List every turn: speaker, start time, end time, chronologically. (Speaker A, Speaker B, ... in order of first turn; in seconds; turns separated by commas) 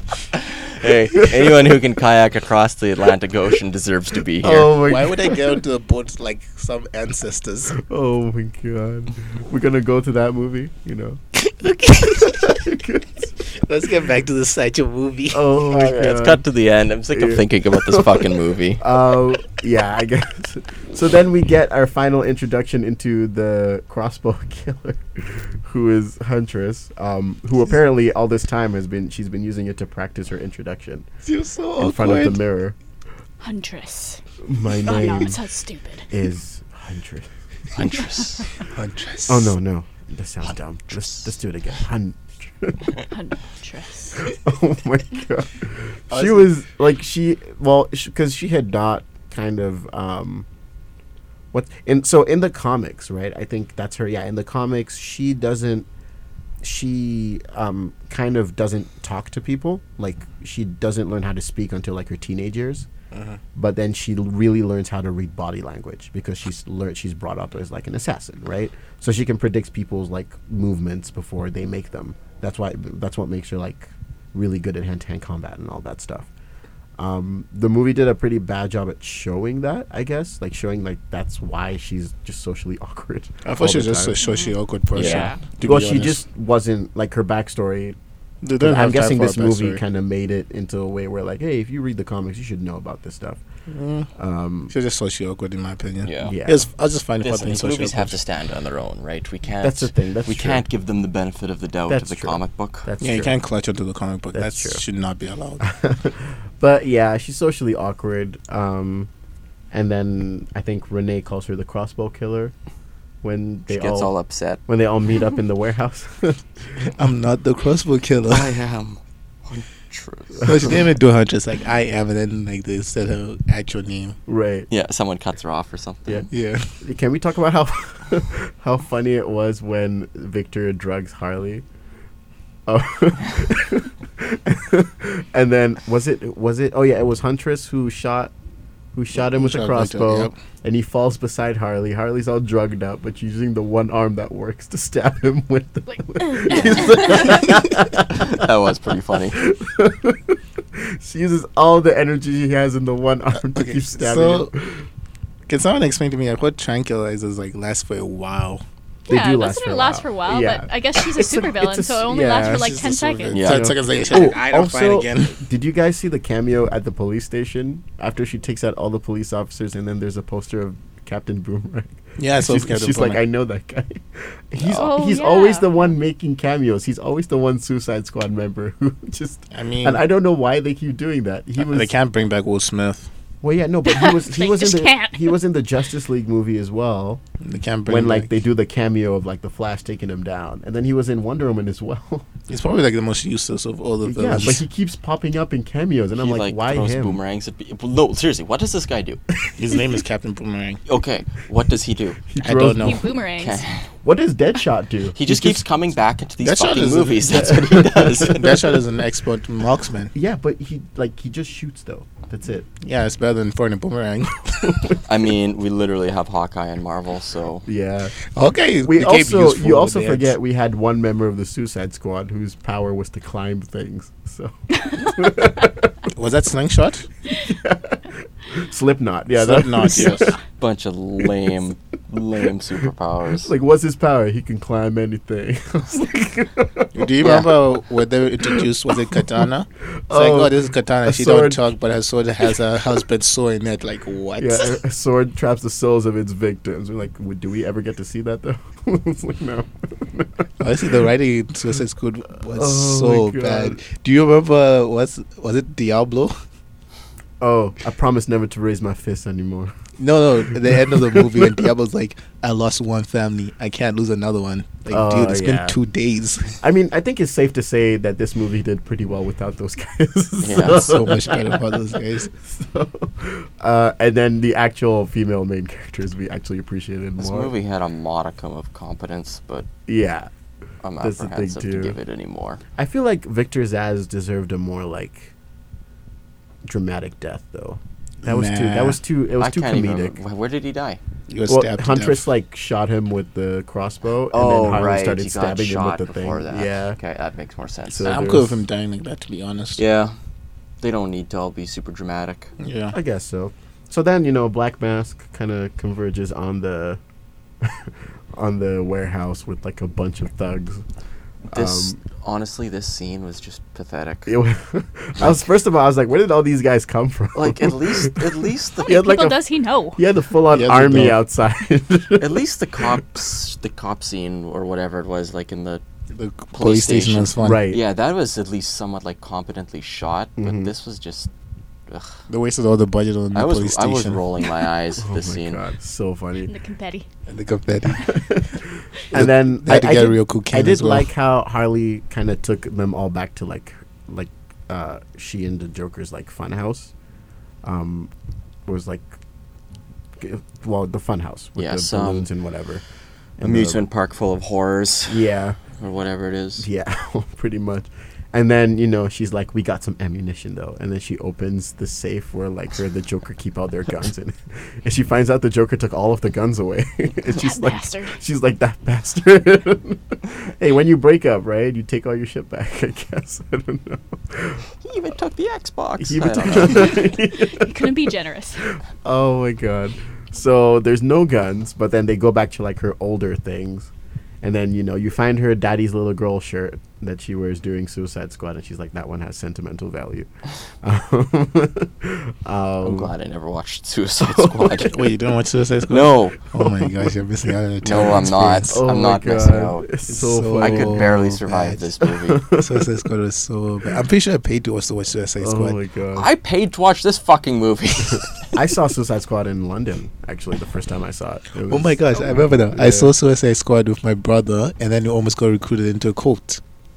Speaker A: 0.4-4.8, Speaker B: 4.4-5.5, Speaker C: 4.8-7.7, Speaker B: 7.8-11.2, Speaker C: 11.4-12.5, Speaker B: 12.2-13.3, Speaker C: 13.4-15.5, Speaker B: 15.3-16.4, Speaker A: 15.7-18.8, Speaker B: 17.1-18.2, Speaker B: 18.8-31.1, Speaker C: 31.2-32.4, Speaker B: 31.8-32.8, Speaker D: 33.4-34.2, Speaker B: 34.5-35.4, Speaker D: 34.8-36.0, Speaker B: 36.1-37.3, Speaker A: 37.7-38.5, Speaker C: 38.7-39.5, Speaker B: 39.3-42.9, Speaker D: 43.1-44.2, Speaker B: 44.2-50.5, Speaker C: 46.1-46.5, Speaker B: 51.5-55.9, Speaker B: 56.6-62.9, Speaker C: 63.1-63.4, Speaker B: 63.5-76.3, Speaker B: 77.0-84.1, Speaker C: 83.4-86.2, Speaker D: 84.2-84.6, Speaker A: 84.9-85.3, Speaker B: 85.0-88.0, Speaker C: 88.4-89.8, Speaker B: 88.6-93.4, Speaker C: 93.7-94.1, Speaker B: 94.2-94.7, Speaker C: 94.7-98.2, Speaker A: 96.0-96.3, Speaker B: 96.2-96.7, Speaker A: 97.2-102.9, Speaker B: 99.6-100.6, Speaker B: 101.9-103.4, Speaker C: 103.0-105.6, Speaker B: 104.3-104.8, Speaker B: 105.6-109.1, Speaker B: 109.7-112.5, Speaker B: 113.2-114.1, Speaker A: 113.7-114.6, Speaker B: 114.7-116.9, Speaker C: 117.0-118.5, Speaker A: 118.3-120.8, Speaker C: 120.4-124.2, Speaker B: 124.3-124.7, Speaker A: 124.7-126.3, Speaker B: 126.0-131.6, Speaker C: 126.3-126.7, Speaker B: 132.7-138.3, Speaker B: 138.9-148.5, Speaker C: 139.2-140.3, Speaker D: 146.2-147.4, Speaker A: 148.1-149.4, Speaker B: 149.3-154.8, Speaker C: 153.5-154.5, Speaker C: 155.5-158.6, Speaker B: 159.1-162.8, Speaker D: 159.1-163.5, Speaker C: 162.4-165.4, Speaker A: 163.3-163.7, Speaker B: 163.3-181.9, Speaker C: 172.2-173.2, Speaker D: 174.7-175.8, Speaker C: 179.5-180.0, Speaker C: 181.6-183.1, Speaker B: 183.4-187.2, Speaker D: 183.8-185.4, Speaker C: 187.4-188.3, Speaker B: 187.8-192.3, Speaker C: 192.5-194.6, Speaker B: 194.0-197.2, Speaker A: 196.2-199.2, Speaker C: 199.6-200.8, Speaker A: 200.8-202.2, Speaker B: 202.3-203.1, Speaker C: 202.4-203.0, Speaker D: 202.8-203.6, Speaker A: 203.4-203.8, Speaker B: 204.0-205.6, Speaker A: 205.2-208.5, Speaker C: 206.4-210.1, Speaker B: 207.3-208.7, Speaker B: 210.1-212.7, Speaker C: 212.8-214.8, Speaker A: 215.0-217.7, Speaker B: 217.7-218.2, Speaker C: 218.3-220.4, Speaker B: 218.8-225.9, Speaker C: 226.1-227.1, Speaker B: 227.3-230.3, Speaker C: 229.3-230.3, Speaker A: 230.6-233.5, Speaker B: 233.4-237.5, Speaker C: 236.9-244.8, Speaker B: 238.4-239.2, Speaker B: 240.1-241.6, Speaker B: 244.4-250.5, Speaker C: 250.6-256.4, Speaker B: 252.4-253.8, Speaker B: 257.4-259.7, Speaker C: 260.0-266.6, Speaker B: 260.5-261.6, Speaker B: 264.9-265.8, Speaker B: 266.6-277.5, Speaker A: 270.4-271.1, Speaker C: 270.6-272.3, Speaker A: 277.2-279.7, Speaker B: 279.9-280.3, Speaker A: 280.8-282.6, Speaker B: 281.0-281.9, Speaker B: 282.8-285.3, Speaker B: 286.6-290.2, Speaker C: 288.2-289.0, Speaker A: 289.4-291.0, Speaker C: 291.3-292.3, Speaker B: 291.5-297.0, Speaker A: 294.3-298.2, Speaker B: 297.9-298.6, Speaker C: 298.0-299.8, Speaker A: 299.8-300.1, Speaker A: 300.8-302.5, Speaker C: 302.6-302.9, Speaker B: 302.9-307.0, Speaker B: 307.6-310.8, Speaker B: 311.5-312.0, Speaker A: 311.5-314.3, Speaker B: 314.3-318.3, Speaker A: 317.3-318.9, Speaker B: 318.8-319.4, Speaker D: 318.8-320.0, Speaker B: 319.9-322.4, Speaker C: 320.5-321.2, Speaker A: 322.2-325.8, Speaker C: 326.1-327.6, Speaker A: 326.5-331.3, Speaker B: 327.4-327.8, Speaker B: 330.4-330.7, Speaker A: 331.9-332.2, Speaker C: 332.3-334.2, Speaker A: 333.3-335.6, Speaker B: 335.0-336.5, Speaker D: 336.4-337.1, Speaker C: 337.3-338.2, Speaker B: 337.9-346.9, Speaker C: 339.1-341.1, Speaker B: 347.6-348.1, Speaker B: 348.6-349.1, Speaker B: 350.2-352.8, Speaker A: 351.6-352.3, Speaker B: 353.4-353.8, Speaker A: 353.4-356.7, Speaker B: 355.1-355.6, Speaker B: 356.6-374.7, Speaker D: 367.3-368.2, Speaker A: 374.8-377.1, Speaker B: 376.0-377.9, Speaker D: 376.9-378.7, Speaker B: 379.0-383.9, Speaker B: 384.4-390.3, Speaker B: 390.8-393.1, Speaker A: 392.8-394.9, Speaker B: 394.2-394.9, Speaker C: 394.8-398.8, Speaker A: 395.9-396.4, Speaker A: 397.8-399.9, Speaker B: 398.7-401.1, Speaker C: 400.1-401.8, Speaker A: 400.6-402.4, Speaker B: 402.0-402.9, Speaker C: 402.6-405.8, Speaker B: 405.4-406.3, Speaker A: 406.1-408.5, Speaker B: 408.5-413.1, Speaker C: 411.7-416.6